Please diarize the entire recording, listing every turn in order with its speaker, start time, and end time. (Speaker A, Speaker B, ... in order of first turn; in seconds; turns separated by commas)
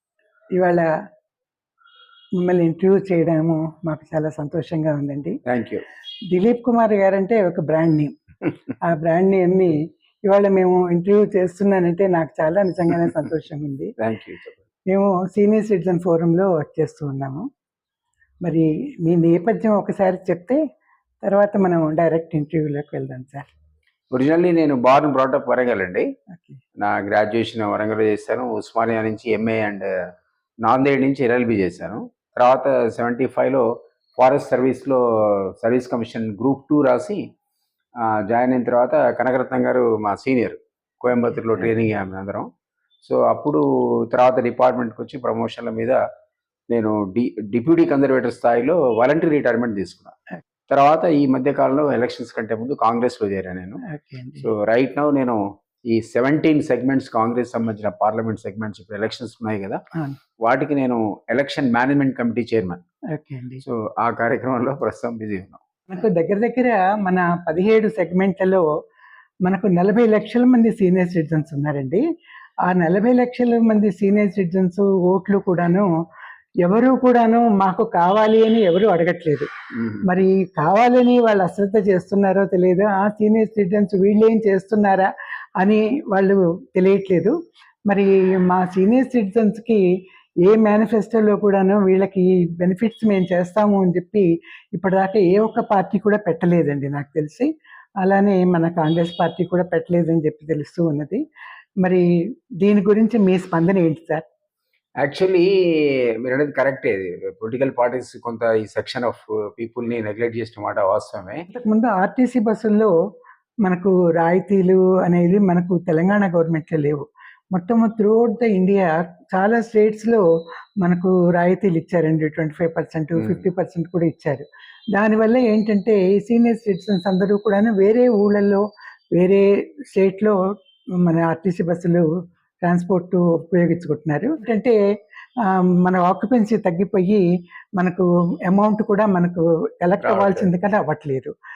Speaker A: 0.6-0.9, Speaker A: 2.4-5.4, Speaker B: 5.5-5.8, Speaker A: 6.3-8.1, Speaker A: 8.8-13.9, Speaker B: 14.0-14.6, Speaker A: 14.9-17.5, Speaker A: 18.4-20.6, Speaker A: 21.2-23.5, Speaker B: 24.1-26.1, Speaker B: 26.8-29.9, Speaker B: 30.6-33.7, Speaker B: 34.2-37.2, Speaker B: 38.0-42.5, Speaker B: 43.0-46.0, Speaker B: 46.7-50.2, Speaker B: 50.7-53.8, Speaker A: 53.9-54.5, Speaker B: 54.4-59.8, Speaker B: 60.4-62.8, Speaker A: 63.1-63.6, Speaker B: 63.6-65.6, Speaker A: 65.9-68.7, Speaker A: 69.5-72.0, Speaker A: 72.7-75.9, Speaker A: 76.6-79.5, Speaker B: 79.8-80.1, Speaker A: 80.0-87.3, Speaker A: 87.9-89.8, Speaker A: 90.4-97.5, Speaker A: 98.0-101.2, Speaker A: 102.6-104.2, Speaker B: 105.0-111.4, Speaker A: 111.5-112.9, Speaker A: 113.7-120.2, Speaker A: 120.8-128.6, Speaker B: 123.2-123.4, Speaker A: 129.2-130.4, Speaker A: 131.0-132.1, Speaker A: 132.6-134.8, Speaker A: 135.5-137.2, Speaker A: 137.8-141.3, Speaker B: 140.0-140.5